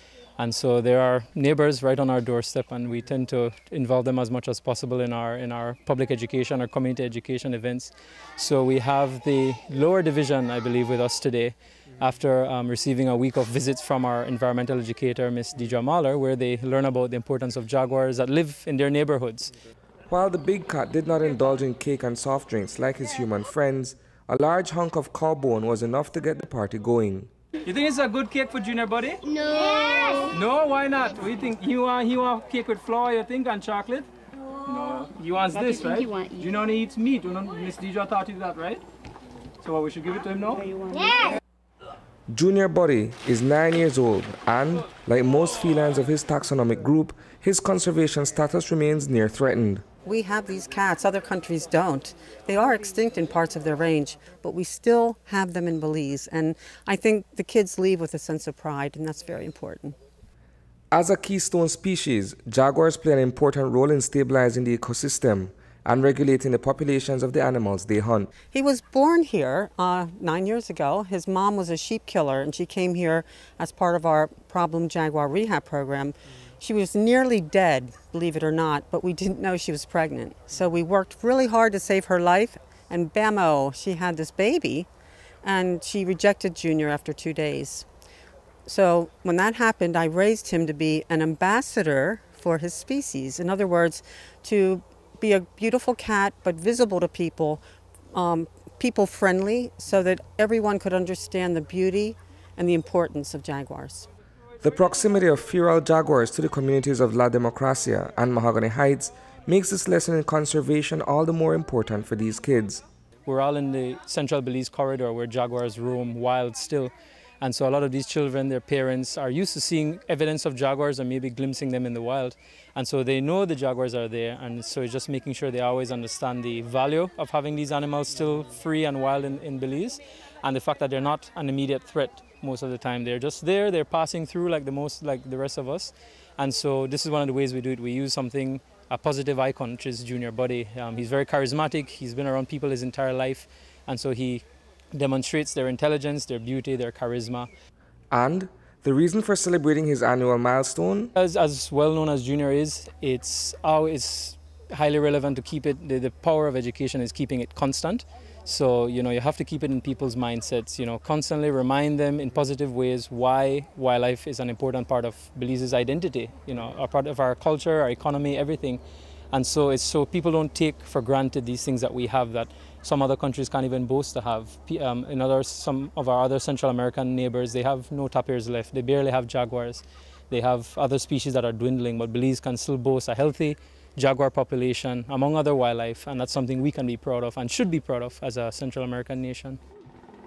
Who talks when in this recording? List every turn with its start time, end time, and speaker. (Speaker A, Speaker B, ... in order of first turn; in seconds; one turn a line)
Speaker A: 0.4-19.5
Speaker B: 20.1-27.3
Speaker A: 27.6-29.3
Speaker C: 29.4-30.3
Speaker A: 30.1-34.1
Speaker A: 34.6-38.8
Speaker C: 35.8-36.4
Speaker A: 39.6-40.7
Speaker C: 40.7-41.4
Speaker B: 42.3-49.8
Speaker D: 50.0-60.0
Speaker B: 60.9-68.3
Speaker D: 68.5-84.9
Speaker D: 85.4-87.9
Speaker D: 88.7-97.6
Speaker D: 98.1-104.1
Speaker B: 104.6-112.8
Speaker A: 113.2-147.5
Speaker B: 148.1-151.1
Speaker A: 151.2-168.8
Speaker A: 169.3-189.6